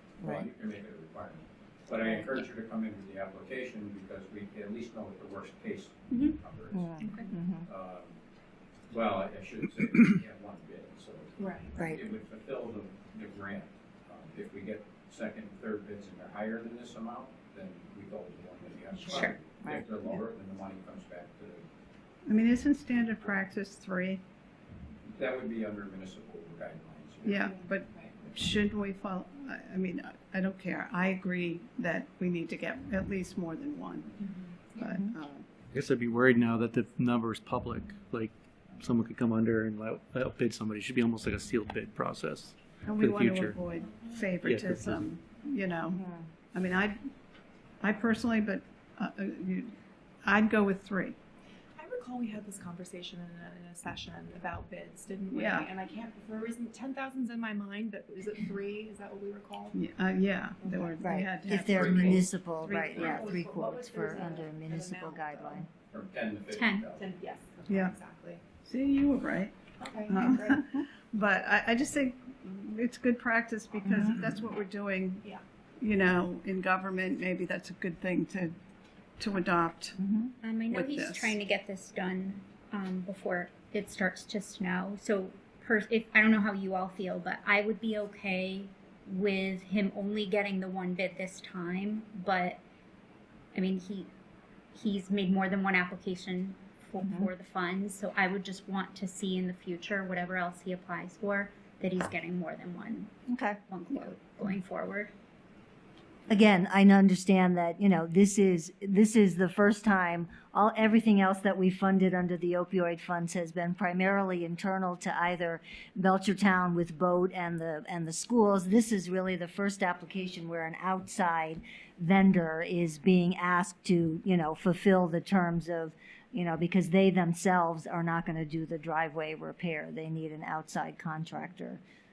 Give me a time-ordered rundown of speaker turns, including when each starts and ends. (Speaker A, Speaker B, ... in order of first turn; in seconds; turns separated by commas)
Speaker A: 0.2-0.5, Speaker B: 0.2-8.2, Speaker C: 6.1-6.4, Speaker A: 6.7-7.7, Speaker C: 7.0-7.3, Speaker B: 8.9-21.6, Speaker D: 11.4-11.7, Speaker C: 19.1-19.4, Speaker E: 22.3-24.2, Speaker B: 25.1-27.5, Speaker E: 27.2-34.1, Speaker D: 27.4-28.1, Speaker E: 34.8-35.5, Speaker A: 34.8-35.1, Speaker F: 35.7-43.6, Speaker E: 42.8-46.0, Speaker F: 44.4-45.1, Speaker A: 45.9-46.3, Speaker E: 46.5-47.0, Speaker E: 47.8-51.2, Speaker D: 51.8-59.8, Speaker E: 55.3-55.7, Speaker E: 59.7-62.3, Speaker D: 60.6-61.1, Speaker A: 61.0-65.7, Speaker B: 61.5-62.3, Speaker D: 62.6-65.7, Speaker B: 62.9-63.3, Speaker B: 65.9-67.1, Speaker C: 66.5-66.9, Speaker D: 66.9-68.4, Speaker E: 67.7-68.0, Speaker E: 68.6-75.2, Speaker D: 69.8-70.6, Speaker A: 73.8-74.3, Speaker E: 75.8-78.5, Speaker E: 79.2-80.0, Speaker A: 80.0-80.3, Speaker C: 80.4-92.6, Speaker E: 80.7-81.4, Speaker C: 93.5-94.1, Speaker C: 94.7-103.1, Speaker A: 97.0-97.3, Speaker A: 103.3-103.6, Speaker C: 103.7-105.1, Speaker A: 106.3-131.8